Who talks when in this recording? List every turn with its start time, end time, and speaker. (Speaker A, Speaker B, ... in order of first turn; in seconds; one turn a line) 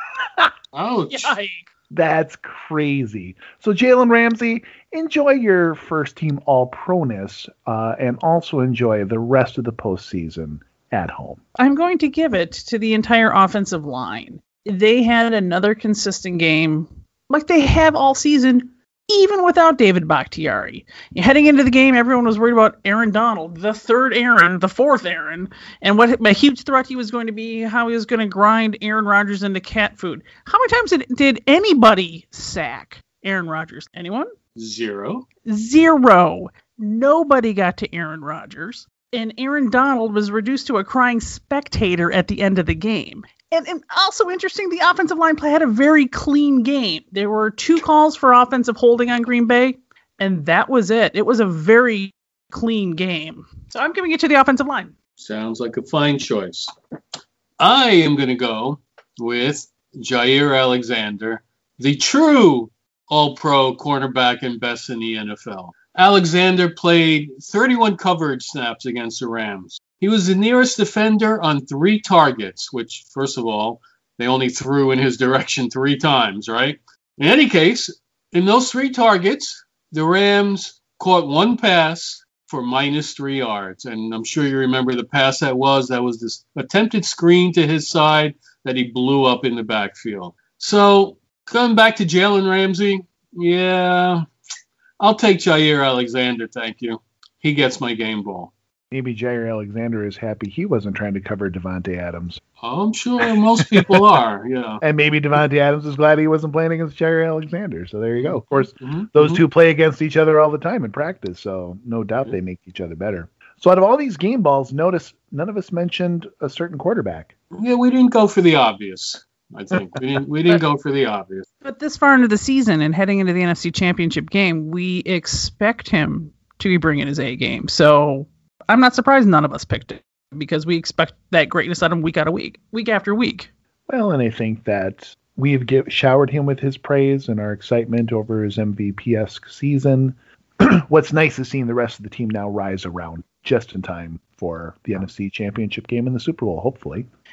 Speaker A: 0.7-1.3
Speaker B: 1.1-1.7
Speaker C: 1.9-11.4
Speaker B: 11.6-34.3
Speaker A: 34.6-35.3
Speaker B: 35.5-54.9
Speaker A: 55.2-56.7
Speaker A: 57.6-94.2
Speaker A: 95.0-98.5
Speaker C: 98.9-102.4
Speaker A: 102.6-104.8
Speaker C: 103.6-104.0
Speaker C: 104.8-117.3
Speaker A: 108.2-109.4
Speaker A: 117.5-121.5
Speaker B: 121.6-133.5
Speaker C: 133.9-147.1